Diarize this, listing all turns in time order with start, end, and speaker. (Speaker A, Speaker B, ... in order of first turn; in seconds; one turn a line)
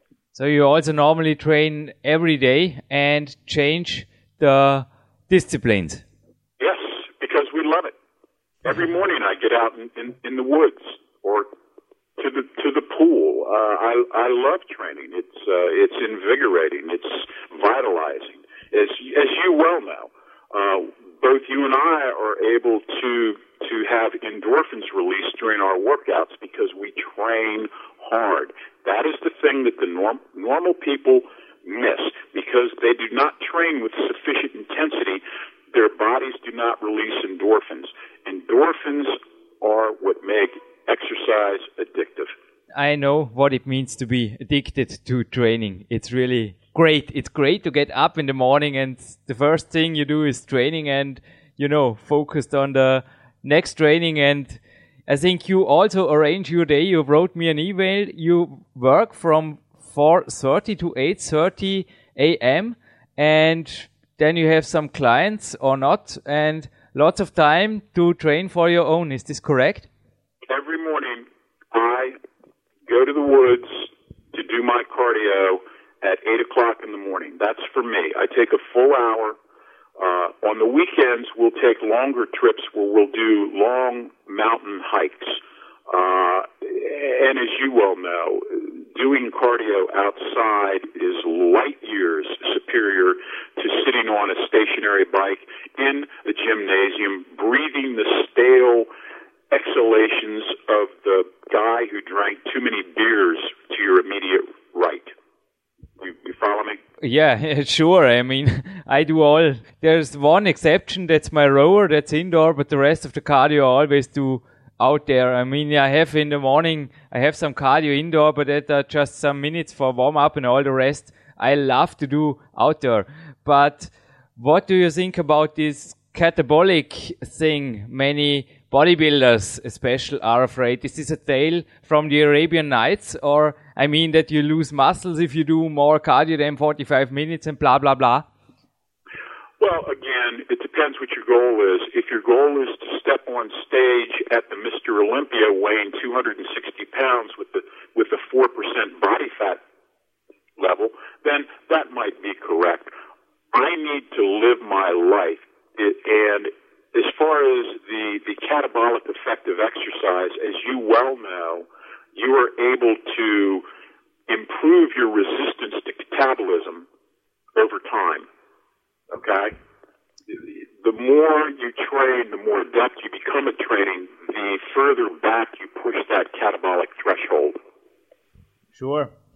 Speaker A: 0.3-6.0
Speaker B: 6.6-7.9
Speaker B: 8.6-11.5
Speaker B: 12.2-42.3
Speaker A: 42.7-69.9
Speaker B: 70.5-72.1
Speaker B: 72.8-79.3
Speaker B: 80.0-98.9
Speaker B: 99.5-105.1
Speaker B: 106.0-106.8
Speaker A: 107.0-138.3
Speaker B: 139.6-149.6
Speaker B: 150.6-152.9
Speaker B: 153.5-163.6
Speaker B: 164.3-166.8
Speaker B: 167.5-168.3
Speaker B: 169.1-169.5
Speaker B: 170.3-177.6
Speaker A: 178.7-179.1